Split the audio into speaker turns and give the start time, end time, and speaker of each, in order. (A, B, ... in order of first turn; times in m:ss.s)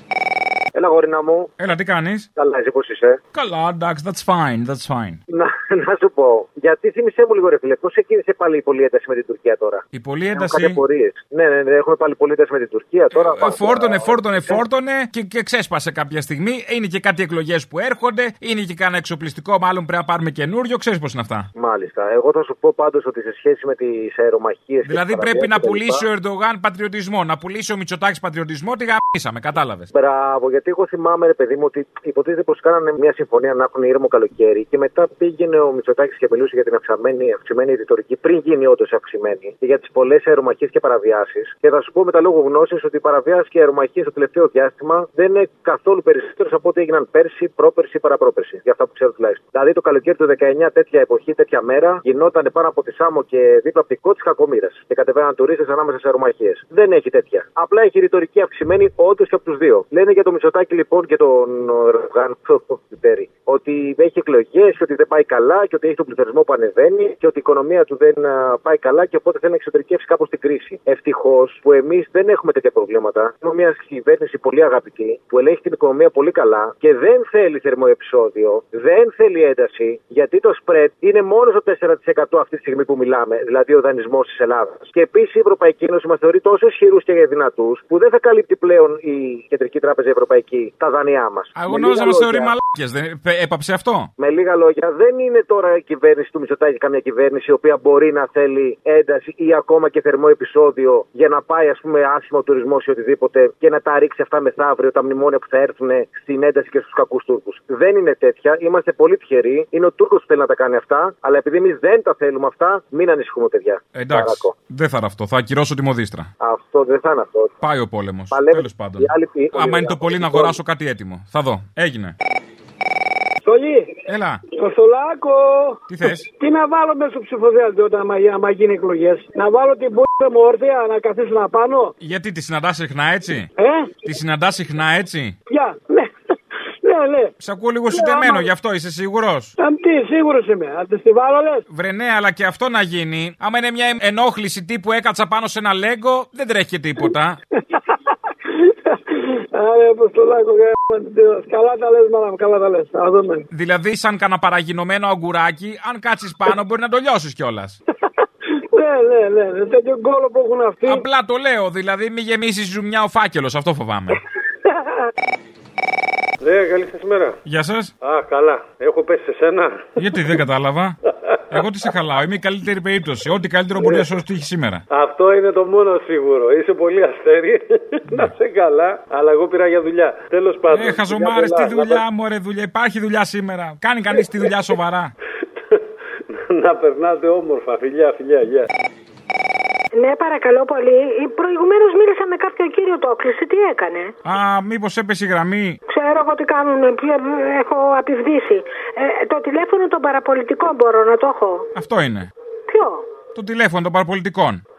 0:00.8-0:01.5 A
0:01.6-0:02.3 B
0:02.4-0:03.2 A
0:03.3-0:05.2 B
0:05.3-0:14.6 A
0:09.9-0:10.8 B
0:13.1-0:21.5 B
0:21.6-0:26.0 A
0:24.9-0:29.9 B
0:29.9-1:32.5 A
1:31.6-1:34.1 B
1:34.2-1:54.5 A
1:54.0-1:56.3 B
1:56.4-1:57.6 A
1:57.6-2:02.2 B
1:58.3-2:00.6 A
2:03.4-2:03.9 C
2:04.1-2:04.4 B
2:04.6-2:11.9 C
2:05.9-2:06.3 B
2:12.0-2:13.5 B
2:13.6-2:14.0 C
2:14.0-2:15.4 B
2:15.5-2:16.1 C
2:16.8-2:17.3 C
2:17.4-2:19.5 B
2:17.9-2:18.5 C
2:19.6-2:21.6 C
2:21.7-2:27.4 B
2:29.5-2:33.5 C
2:33.5-2:37.8 B
2:38.7-2:41.0 C
2:40.8-2:44.2 B
2:46.4-2:47.4 D
2:47.5-2:47.9 B
2:48.0-2:49.8 D
2:50.0-2:51.0 B
2:51.5-2:54.8 B
2:54.9-2:57.6 D
2:58.3-3:01.9 D
3:00.7-3:05.1 B
3:06.5-3:08.7 D
3:10.0-3:14.1 E
3:14.2-3:15.8 B
3:15.9-3:21.7 E
3:21.8-3:22.3 B
3:22.7-3:23.0 E
3:23.4-3:24.6 B